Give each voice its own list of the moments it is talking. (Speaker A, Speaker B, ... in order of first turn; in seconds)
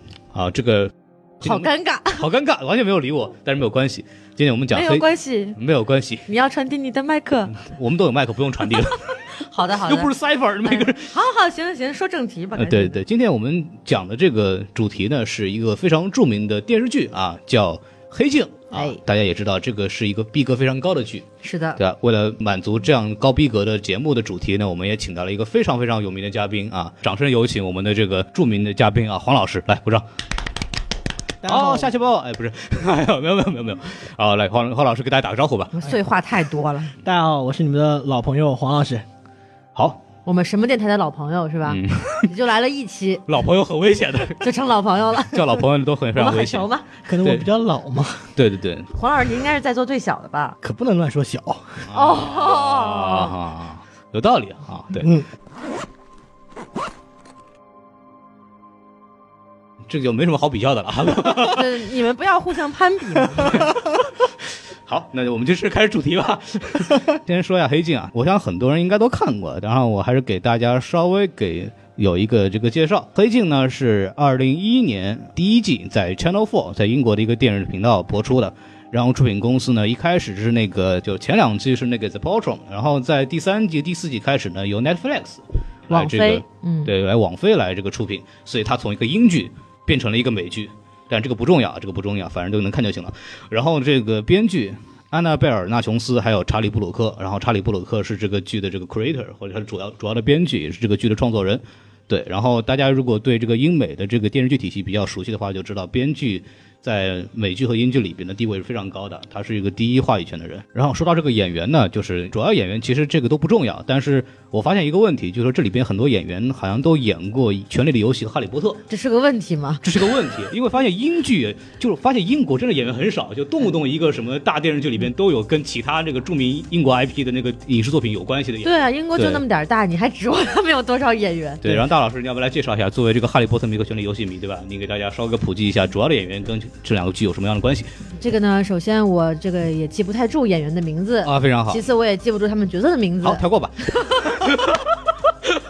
Speaker A: 0.3-6.3, 7.5-11.1, 12.6-21.2, 21.8-30.1, 31.4-35.7, 41.6-42.3, 43.3-44.4, 45.2-46.7, 47.2-47.5, 48.4-48.9, 51.9-55.1, 59.9-61.8, 63.3-118.8, 119.8-129.4, 131.6-137.9, 141.2-141.8, 143.2-144.8
Speaker B: 1.4-2.2, 4.7-5.6, 6.3-7.6, 9.3-10.1, 10.6-13.0, 18.7-19.0, 21.4-21.8, 35.7-36.9, 40.2-43.2, 44.4-46.9, 48.9-50.6, 51.9-53.3, 61.2-63.7, 85.9-86.9, 118.9-119.8, 128.6-131.9, 138.2-144.4
Speaker C: 31.4-31.9, 37.0-39.0, 47.0-48.3, 50.6-51.9, 55.0-55.3